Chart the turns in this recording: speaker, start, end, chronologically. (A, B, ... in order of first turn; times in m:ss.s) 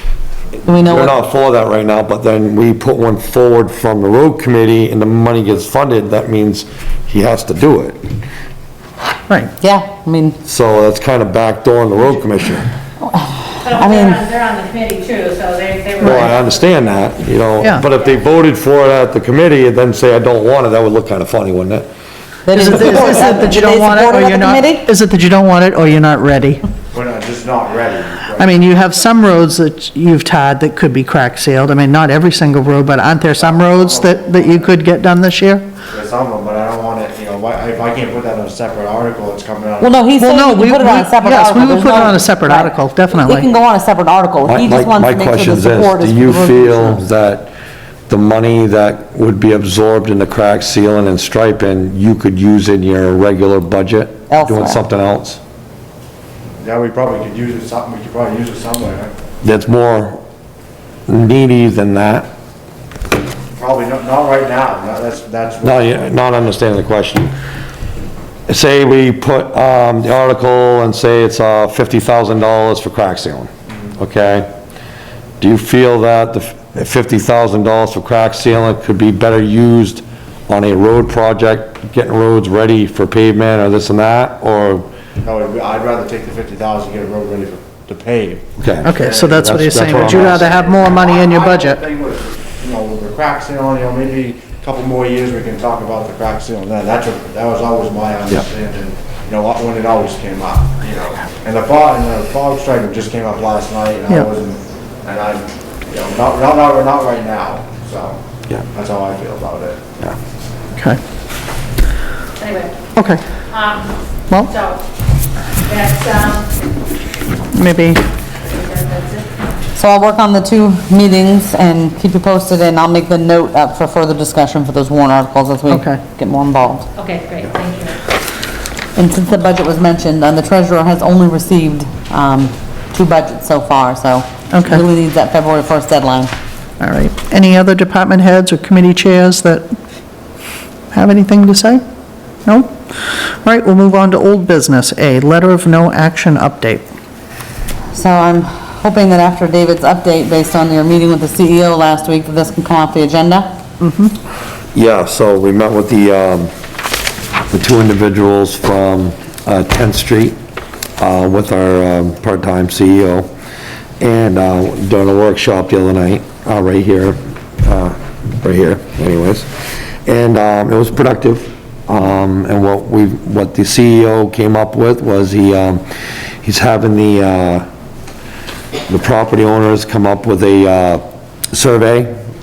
0:00.6-0:01.1 A
0:00.8-0:08.0 B
0:09.6-0:10.4 A
0:10.5-0:12.7 B
0:13.0-0:14.2 A
0:13.6-0:16.8 C
0:16.0-0:21.9 B
0:22.5-0:24.9 A
0:22.5-0:26.6 D
0:26.9-0:28.9 E
0:28.4-0:35.7 D
0:33.4-0:34.7 E
0:35.9-0:40.0 E
0:39.8-0:47.0 A
0:40.2-0:43.5 D
0:44.4-0:47.5 B
0:48.1-0:55.4 B
0:54.3-0:54.8 A
0:56.6-0:59.1 E
0:59.4-1:00.2 B
1:01.1-1:02.3 B
1:03.5-1:05.9 E
1:05.6-1:07.3 B
1:08.5-1:14.5 B
1:15.4-1:24.9 B
1:25.2-1:49.8 E
1:28.6-1:30.5 B
1:28.8-1:31.8 D
1:50.8-1:51.0 D
1:52.4-1:52.8 C
1:53.0-1:53.2 D
1:53.5-1:54.8 C
1:55.6-1:56.5 C
1:57.5-1:58.0 D
1:58.5-1:59.3 C
1:59.8-2:06.9 A
2:05.7-2:06.0 D
2:07.0-2:08.0 C
2:09.0-2:16.3 A
2:14.5-2:14.8 D
2:16.8-2:19.7 D
2:20.9-2:21.8 D
2:22.4-2:26.9 D
2:27.9-2:33.5 A
2:33.8-2:34.1 D
2:34.7-2:36.5 B
2:37.5-2:40.4 B
2:41.0-2:43.3 B
2:44.0-2:49.5 B
2:50.0-2:55.8 B
2:56.4-2:57.7 B
2:58.9-3:02.1 B